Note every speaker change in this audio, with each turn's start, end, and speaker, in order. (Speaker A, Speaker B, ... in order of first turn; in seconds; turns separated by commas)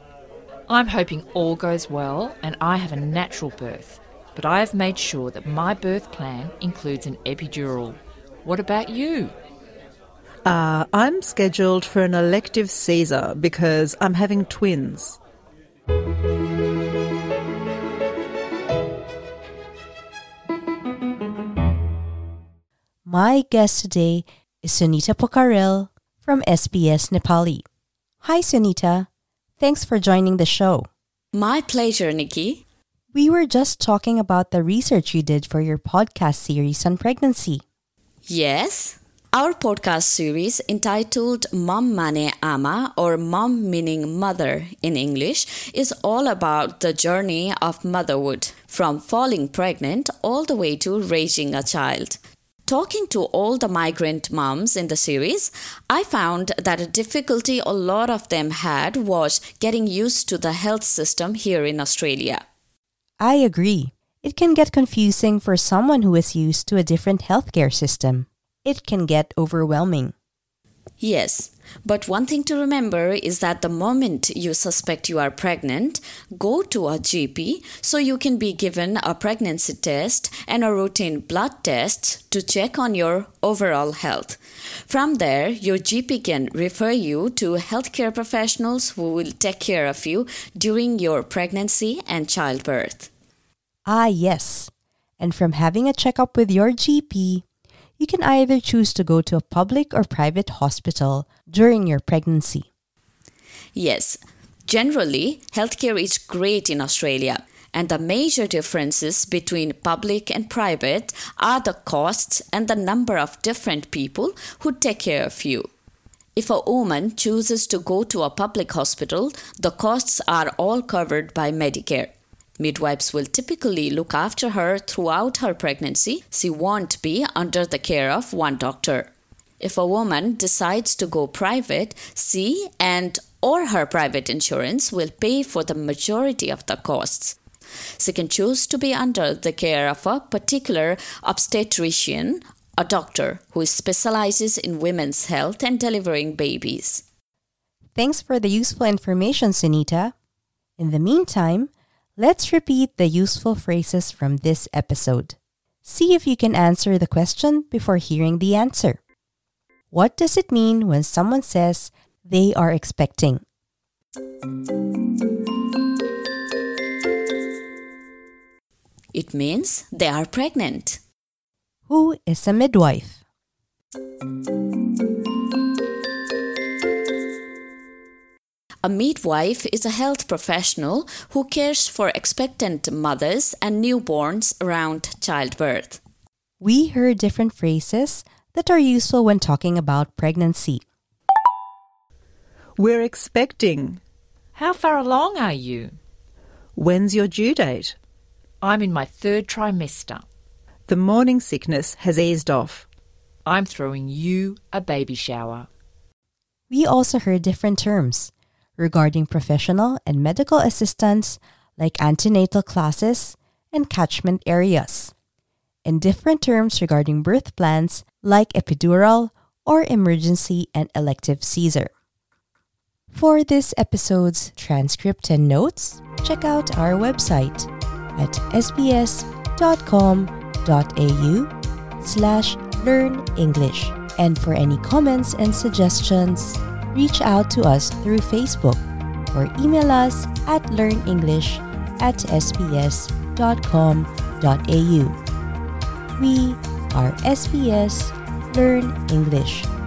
Speaker A: 0.7-9.3, Speaker B: 10.5-15.2, Speaker C: 23.1-27.6, Speaker C: 28.2-29.1, Speaker C: 29.6-30.9, Speaker D: 31.3-32.6, Speaker C: 33.1-37.6, Speaker D: 38.3-62.4, Speaker C: 63.2-70.1, Speaker D: 71.0-93.1, Speaker C: 93.9-97.4, Speaker C: 98.0-102.7, Speaker D: 103.8-115.7, Speaker D: 116.4-137.4, Speaker D: 138.0-147.0, Speaker C: 148.0-150.1, Speaker C: 150.8-159.0, Speaker C: 159.9-163.4, Speaker D: 169.1-171.0, Speaker C: 171.9-173.2, Speaker D: 178.8-186.0, Speaker C: 186.6-190.8, Speaker B: 192.8-194.0, Speaker A: 194.6-196.0, Speaker B: 196.8-198.0, Speaker A: 198.6-200.3, Speaker B: 200.9-202.9, Speaker A: 203.5-205.7, Speaker C: 206.7-215.1, Speaker C: 215.8-221.9, Speaker C: 223.1-245.2, Speaker C: 246.2-249.7